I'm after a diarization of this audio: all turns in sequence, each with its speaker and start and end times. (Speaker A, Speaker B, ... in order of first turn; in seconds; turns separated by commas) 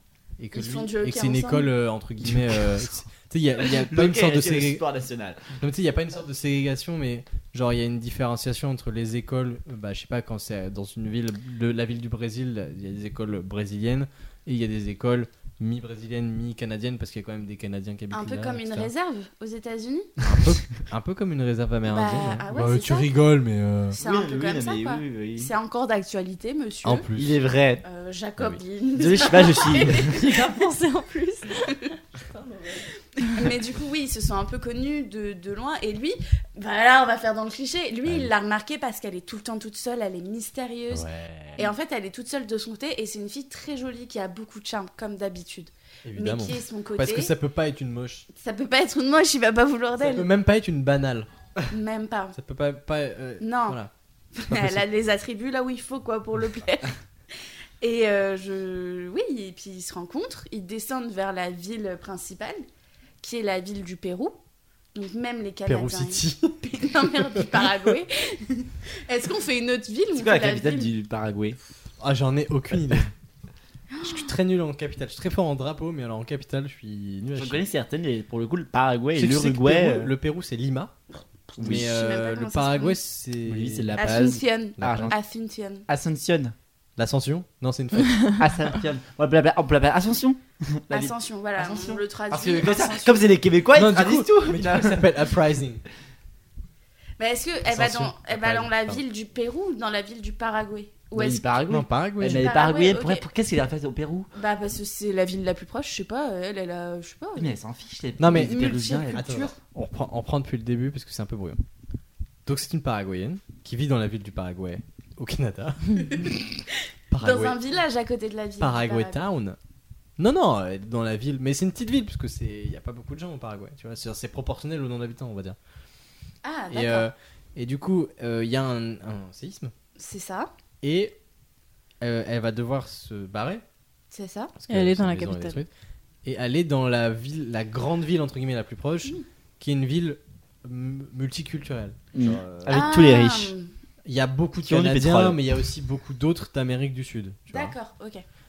Speaker A: 0.4-4.8, Speaker B: 0.5-1.7, Speaker C: 3.6-5.6, Speaker A: 5.6-18.9, Speaker B: 18.1-20.1, Speaker A: 20.2-24.0, Speaker B: 21.9-23.1, Speaker C: 23.9-25.5, Speaker B: 23.9-27.1, Speaker A: 26.8-27.4, Speaker C: 27.1-27.8, Speaker B: 27.8-30.4, Speaker C: 28.9-30.2, Speaker D: 30.0-32.9, Speaker B: 33.3-41.0, Speaker A: 38.0-38.3, Speaker A: 40.9-41.7, Speaker B: 41.6-47.3, Speaker A: 46.0-48.3, Speaker B: 48.3-50.3, Speaker A: 50.0-51.3, Speaker B: 51.7-52.4, Speaker A: 52.3-53.9, Speaker B: 53.4-53.8, Speaker B: 54.3-57.0, Speaker A: 54.5-54.9, Speaker B: 57.8-62.6, Speaker B: 63.2-64.4, Speaker B: 64.9-70.9, Speaker A: 65.7-67.9, Speaker C: 70.1-71.6, Speaker A: 72.0-73.1, Speaker B: 73.9-74.3, Speaker A: 74.0-77.6, Speaker C: 77.3-80.1, Speaker A: 79.2-81.0, Speaker B: 81.5-83.0, Speaker C: 81.6-81.8, Speaker A: 81.6-84.2, Speaker C: 83.5-85.2, Speaker B: 84.0-85.8, Speaker A: 84.8-85.1, Speaker C: 85.9-86.5, Speaker A: 87.0-88.4, Speaker C: 88.4-95.1, Speaker B: 90.9-93.4, Speaker A: 93.7-95.8, Speaker B: 97.2-101.5, Speaker A: 97.7-99.0, Speaker C: 101.1-104.3, Speaker A: 101.7-102.5, Speaker B: 102.2-103.2, Speaker B: 104.3-107.5, Speaker C: 107.3-109.5, Speaker A: 108.2-111.6, Speaker B: 108.3-109.5, Speaker A: 112.5-116.4, Speaker B: 116.0-116.4, Speaker A: 117.1-117.6, Speaker B: 117.2-119.2, Speaker A: 118.6-119.6, Speaker A: 120.2-125.6, Speaker B: 126.4-127.1, Speaker A: 126.7-129.7, Speaker B: 130.0-130.5, Speaker A: 130.8-131.1, Speaker A: 132.0-133.6, Speaker B: 134.1-134.5, Speaker A: 134.6-135.7, Speaker D: 134.7-135.6, Speaker A: 136.2-142.8, Speaker C: 142.1-143.5, Speaker B: 142.7-143.7, Speaker A: 144.0-147.7, Speaker C: 144.6-145.4, Speaker B: 147.5-148.2